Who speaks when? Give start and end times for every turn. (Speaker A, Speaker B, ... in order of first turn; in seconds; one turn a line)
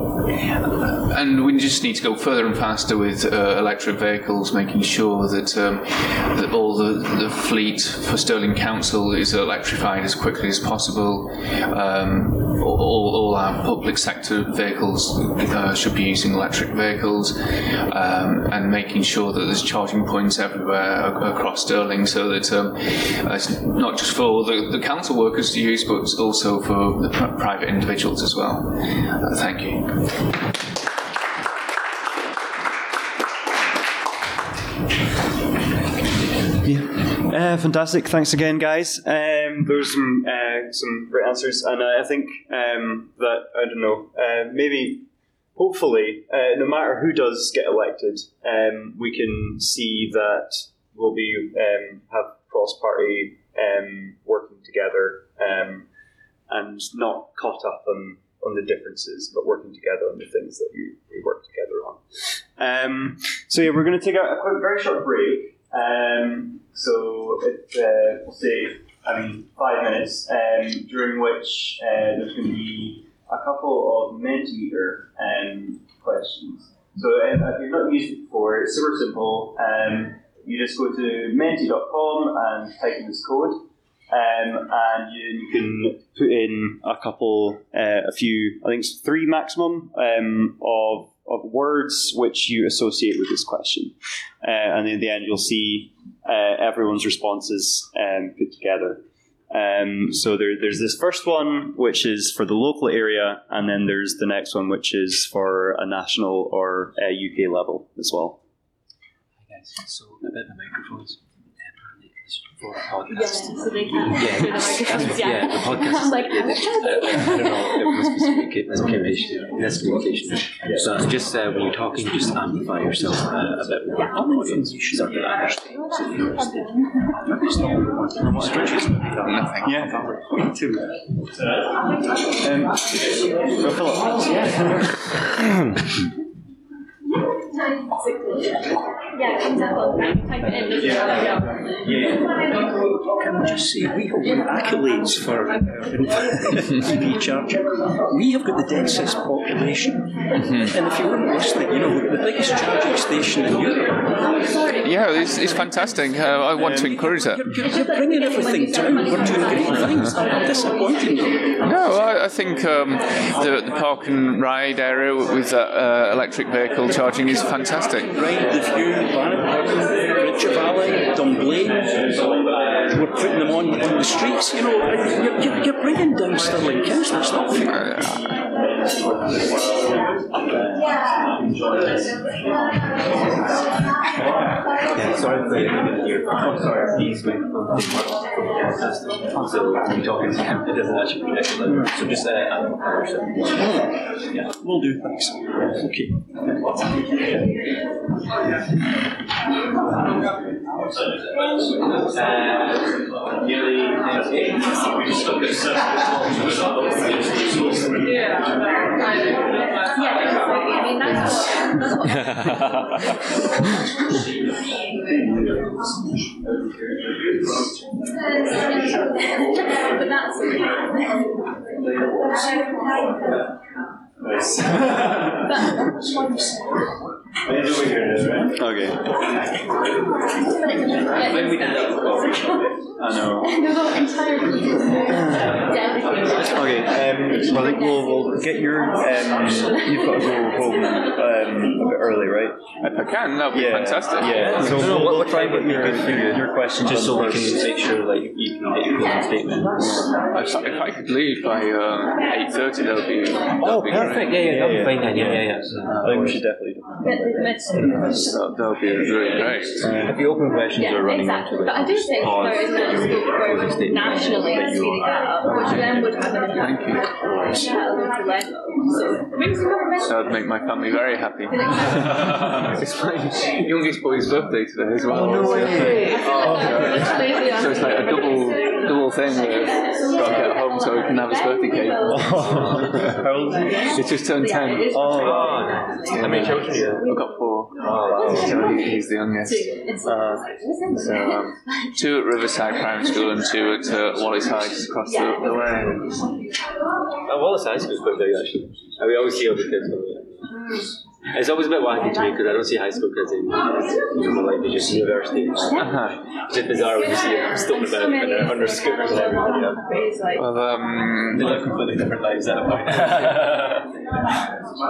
Speaker A: 0.3-30.4
Speaker B: 36.6-55.9
Speaker B: 56.5-108.4
Speaker C: 109.5-125.3
Speaker D: 113.1-120.1
Speaker B: 120.6-121.0
Speaker E: 122.9-123.3
Speaker E: 124.0-131.0
Speaker B: 128.4-128.8
Speaker A: 129.2-129.8
Speaker B: 129.6-129.9
Speaker B: 132.4-135.2
Speaker D: 139.1-141.5
Speaker E: 143.1-154.1
Speaker A: 150.4-150.7
Speaker D: 154.5-154.9
Speaker A: 154.8-157.5
Speaker E: 155.1-161.7
Speaker D: 157.6-160.7
Speaker A: 161.6-168.1
Speaker E: 167.0-172.2
Speaker E: 172.9-178.0
Speaker A: 177.7-178.3
Speaker C: 184.9-193.5
Speaker E: 194.4-196.3
Speaker C: 202.1-208.0
Speaker D: 209.9-212.8
Speaker C: 212.1-213.0
Speaker B: 215.3-217.8
Speaker D: 218.5-221.2
Speaker B: 224.2-225.9
Speaker D: 225.5-225.9
Speaker B: 227.4-229.1
Speaker D: 230.7-232.7
Speaker A: 231.2-232.3
Speaker B: 233.0-233.6
Speaker D: 233.4-240.3
Speaker B: 235.1-235.6
Speaker B: 236.3-242.6
Speaker A: 242.8-244.9
Speaker B: 243.5-247.7
Speaker C: 244.4-250.0
Speaker A: 250.3-254.4
Speaker C: 253.6-256.4
Speaker B: 253.9-258.2
Speaker D: 257.0-258.4
Speaker A: 257.9-259.9
Speaker D: 259.4-259.7
Speaker C: 259.8-265.8
Speaker B: 259.8-260.2
Speaker D: 260.8-270.2
Speaker A: 266.5-267.1
Speaker A: 270.0-283.0
Speaker D: 271.5-272.5
Speaker B: 275.1-277.3
Speaker C: 275.5-276.9
Speaker D: 275.8-287.3
Speaker B: 282.1-284.0
Speaker A: 283.9-285.4
Speaker B: 284.9-286.8
Speaker C: 285.1-287.0
Speaker A: 286.1-289.8
Speaker C: 287.8-288.8
Speaker D: 288.1-292.0
Speaker B: 288.3-288.8
Speaker B: 290.0-291.5
Speaker A: 291.9-296.1
Speaker D: 295.1-295.7
Speaker C: 297.3-300.4
Speaker D: 300.6-300.9
Speaker C: 301.3-309.8
Speaker A: 305.8-306.2
Speaker D: 306.8-310.4
Speaker A: 310.4-311.8
Speaker C: 311.3-313.9
Speaker A: 312.9-313.4